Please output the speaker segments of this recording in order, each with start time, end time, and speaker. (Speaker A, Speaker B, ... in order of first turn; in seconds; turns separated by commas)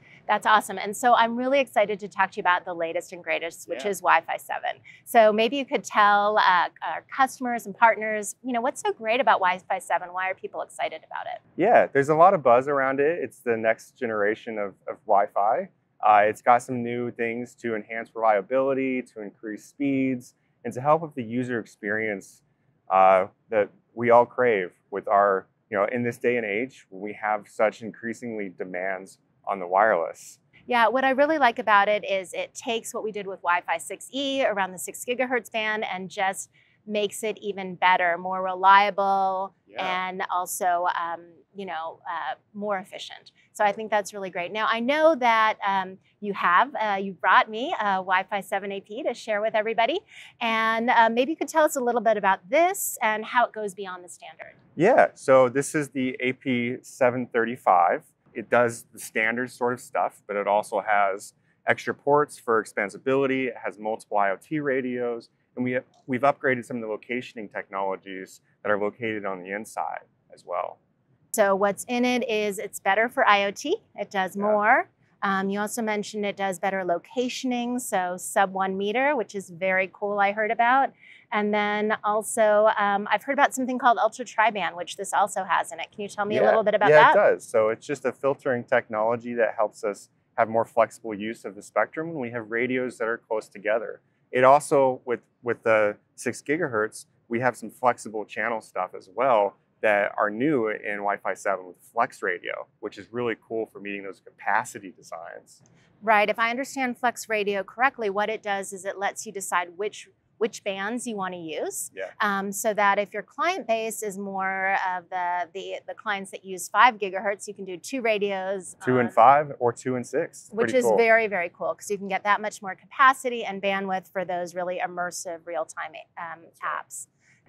Speaker A: 0.3-11.4, Speaker B: 11.6-30.4, Speaker A: 30.7-54.6, Speaker B: 39.7-40.0, Speaker B: 54.8-70.8, Speaker A: 71.3-87.2, Speaker B: 86.3-105.6, Speaker A: 106.0-119.2, Speaker B: 118.8-121.0, Speaker A: 120.5-127.1